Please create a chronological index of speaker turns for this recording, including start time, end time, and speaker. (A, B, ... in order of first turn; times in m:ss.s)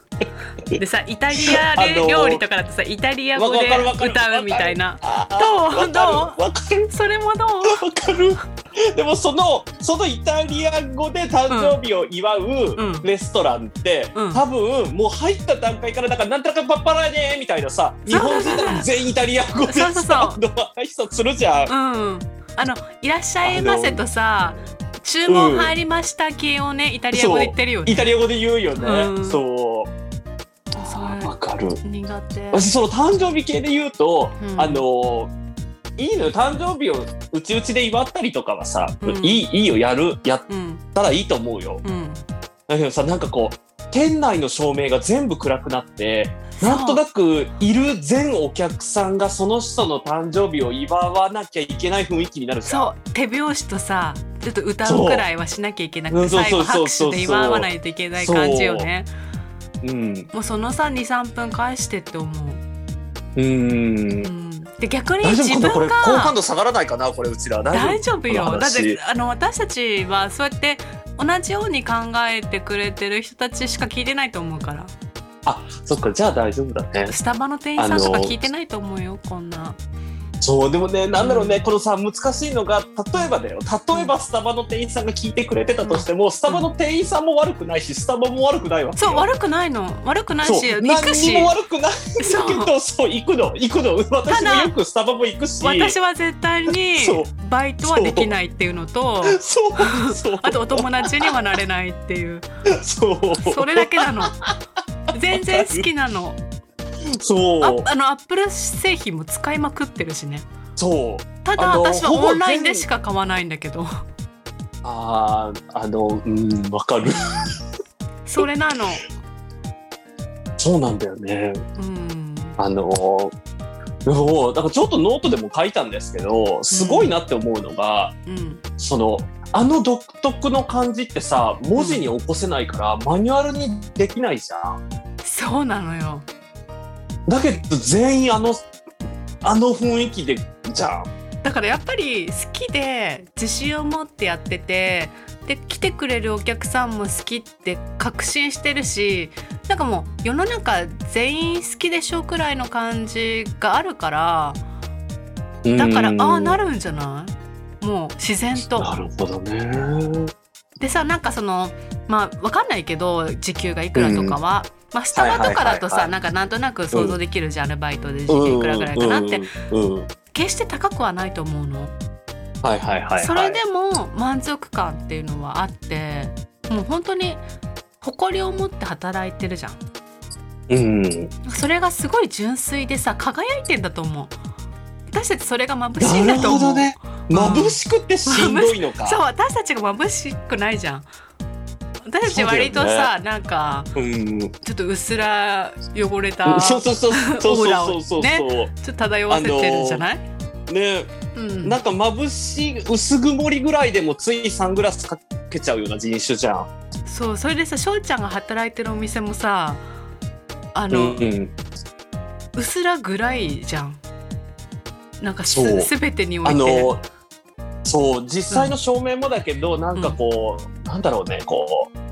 0:00.8-0:06.4 A
0:01.4-0:02.4 B
0:03.4-0:06.9 B
0:06.9-0:07.8 A
0:07.6-0:08.4 B
0:08.9-0:21.7 B
0:11.5-0:11.8 A
0:12.8-0:13.1 A
0:14.1-0:14.4 A
0:18.1-0:18.9 A
0:19.6-0:20.4 A
0:21.7-0:28.1 A
0:23.4-0:24.0 B
0:25.3-0:25.7 B
0:27.1-0:29.9 B
0:28.8-0:29.4 A
0:30.7-0:32.7 A
0:30.8-0:31.8 B
0:32.5-0:35.3 B
0:34.4-0:34.8 A
0:36.0-0:41.8 B
0:39.0-0:39.4 A
0:40.5-0:40.8 A
0:41.8-0:42.2 A
0:42.7-0:52.9 B
0:46.5-0:47.0 A
0:52.6-0:59.1 A
0:54.8-0:55.2 B
0:56.1-0:58.9 B
0:59.8-1:00.3 B
1:00.3-1:02.6 A
1:03.4-1:04.3 B
1:04.2-1:06.4 A
1:05.2-1:09.0 B
1:07.7-1:14.9 A
1:15.4-1:17.2 B
1:17.1-1:19.8 A
1:17.8-1:18.3 B
1:20.4-1:29.2 B
1:21.2-1:21.6 A
1:25.8-1:26.7 A
1:29.0-1:31.5 A
1:30.4-1:36.0 B
1:32.2-1:32.7 A
1:34.3-1:34.7 A
1:35.6-1:42.5 A
1:37.0-1:37.3 B
1:37.8-1:38.3 B
1:39.2-1:41.1 B
1:42.7-1:44.6 B
1:43.4-1:44.3 A
1:45.1-1:46.4 A
1:45.3-1:45.9 B
1:47.2-1:47.9 B
1:47.6-1:50.5 A
1:50.8-1:52.8 B
1:51.4-1:53.9 A
1:54.8-1:57.6 B
1:58.2-1:59.1 A
2:00.6-2:01.6 B
2:01.8-2:02.6 A
2:02.6-2:03.3 B
2:04.0-2:08.2 B
2:06.7-2:07.2 A
2:08.2-2:08.6 A
2:08.8-2:14.8 B
2:11.8-2:12.1 A
2:15.2-2:16.3 A
2:17.3-2:18.6 B
2:19.4-2:21.1 B
2:21.4-2:34.6 A
2:35.6-2:36.6 B
2:35.8-2:38.9 A
2:38.8-2:40.3 B
2:40.8-2:49.5 A
2:43.9-2:44.4 B
2:45.1-2:46.1 B
2:48.3-2:50.1 B
2:50.3-2:51.9 A
2:52.6-2:53.6 B
2:53.2-2:57.4 A
2:58.0-2:59.8 A
3:00.7-3:01.3 B
3:01.4-3:04.4 A
3:05.1-3:11.1 A
3:06.0-3:09.2 B
3:12.1-3:13.9 A
3:12.3-3:13.1 B
3:14.0-3:14.5 B
3:14.6-3:20.2 A
3:16.4-3:18.7 B
3:19.3-3:20.1 B
3:20.7-3:26.7 B
3:21.3-3:21.8 A
3:27.0-3:29.8 A
3:30.8-3:31.2 A
3:30.9-3:31.5 B
3:32.6-3:34.0 A
3:35.2-3:36.9 A
3:35.5-3:35.9 B
3:36.4-3:37.0 B
3:37.8-3:41.9 B